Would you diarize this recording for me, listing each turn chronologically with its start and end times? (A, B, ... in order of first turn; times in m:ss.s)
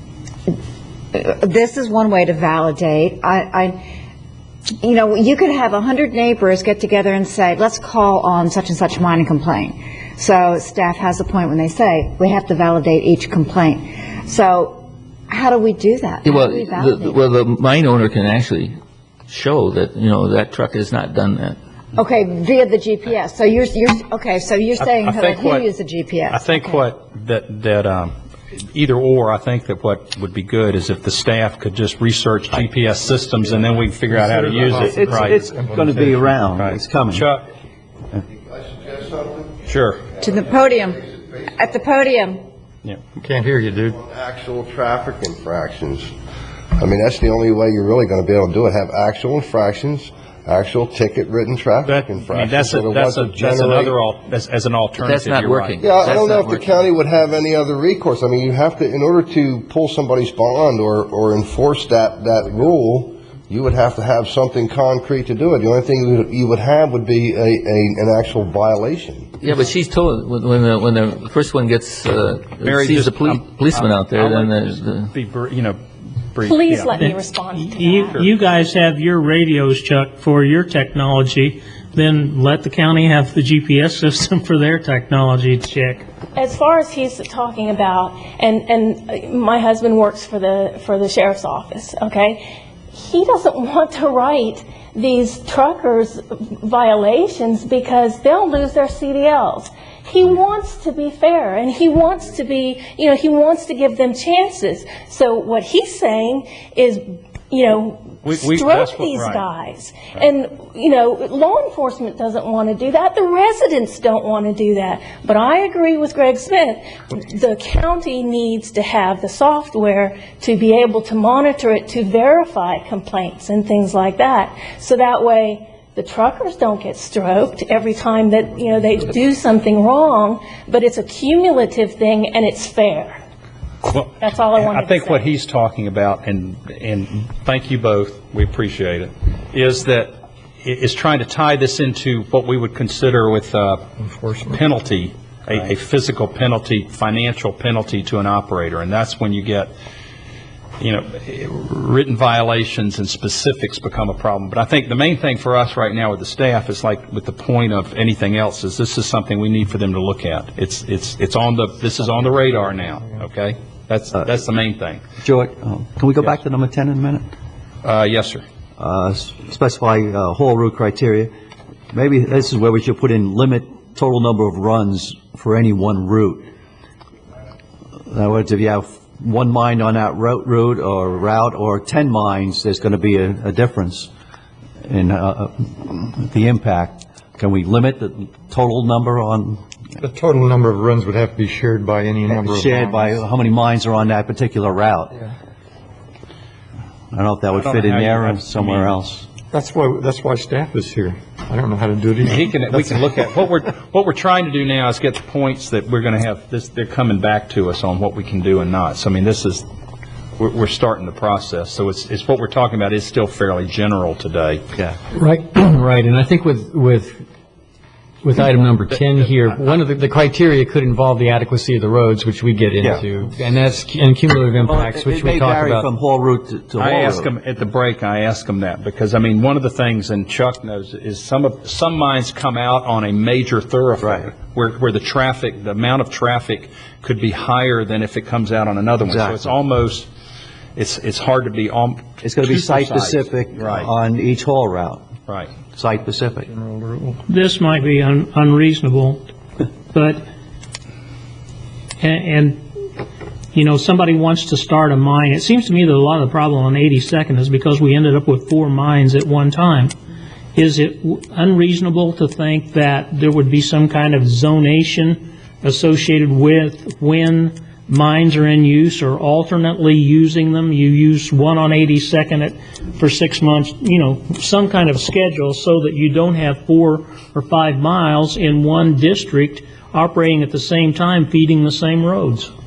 0:01.1-0:03.8 A
0:04.8-0:17.2 A
0:16.2-0:18.8 B
0:19.3-0:21.6 B
0:22.0-0:26.7 A
0:24.8-0:25.7 C
0:26.3-0:28.1 C
0:28.7-0:35.6 C
0:34.1-0:36.4 D
0:34.7-0:37.3 E
0:36.5-0:37.4 C
0:38.4-0:39.6 F
0:39.7-0:40.0 C
0:40.2-0:41.7 F
0:40.2-0:41.0 A
0:41.5-0:42.4 A
0:43.2-0:44.0 D
0:44.0-0:46.1 F
0:46.7-0:54.0 F
0:51.8-0:55.8 C
0:55.0-0:56.8 B
0:55.8-1:09.3 F
1:09.4-1:15.1 B
1:12.6-1:15.8 C
1:16.3-1:17.0 C
1:16.4-1:18.3 G
1:17.0-1:26.1 H
1:26.4-2:13.2 G
1:48.2-1:49.4 C
2:13.8-2:20.1 C
2:14.2-2:15.2 G
2:20.6-2:23.9 C
2:24.0-2:24.6 D
2:24.5-2:29.7 C
2:30.8-2:45.0 C
2:45.2-2:47.3 E
2:47.8-2:48.4 C
2:48.8-2:51.3 E
2:51.9-2:56.4 E
2:58.1-3:04.1 E
3:04.9-3:09.6 E
3:10.0-3:13.1 D
3:12.3-3:15.2 E
3:17.1-3:19.3 E
3:17.5-3:18.9 C
3:19.5-3:22.8 D
3:22.2-3:29.6 C
3:30.4-3:34.6 C
3:35.1-3:37.2 I
3:38.2-3:45.9 I
3:42.8-3:43.1 E
3:44.6-3:47.3 E
3:46.8-4:00.1 C
3:54.0-3:54.3 E
3:59.0-3:59.5 E
4:00.8-4:03.9 C
4:02.2-4:05.1 E
4:05.3-4:05.5 C
4:05.7-4:06.5 E
4:06.5-4:07.2 D
4:07.3-4:09.3 H
4:09.9-4:10.3 H
4:12.0-4:12.6 H
4:13.5-4:19.9 H
4:20.6-4:42.5 H